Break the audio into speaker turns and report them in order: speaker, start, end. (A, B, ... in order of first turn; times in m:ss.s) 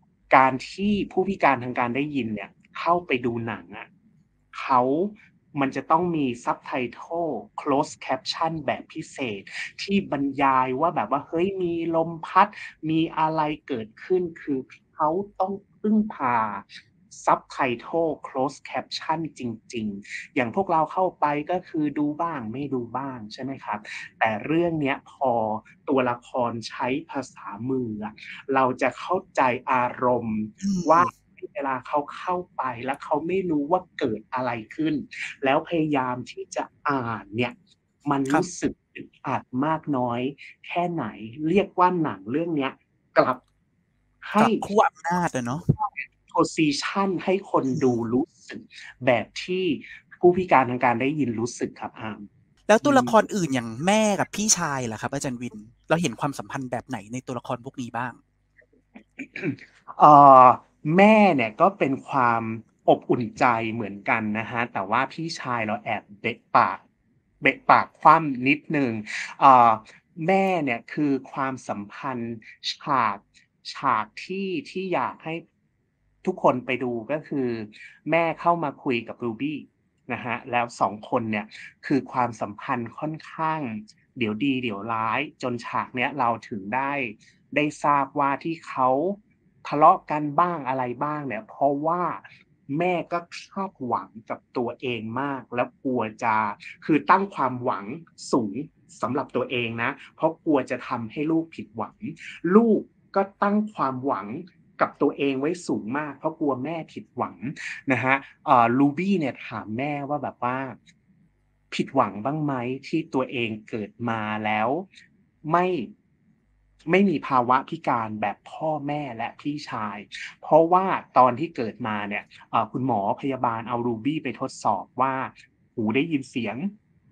0:00.3-0:03.9 A
0:04.5-0:43.4 A
0:30.6-0:31.1 B
0:44.2-0:44.6 A
0:44.4-0:45.7 B
0:45.7-0:52.3 A
0:47.7-0:48.0 B
0:52.7-0:58.2 B
0:52.8-0:53.2 A
0:59.2-1:06.8 A
1:07.4-1:15.4 A
1:16.2-1:50.8 A
1:51.7-1:54.9 A
1:55.4-1:55.9 A
1:56.9-2:06.7 A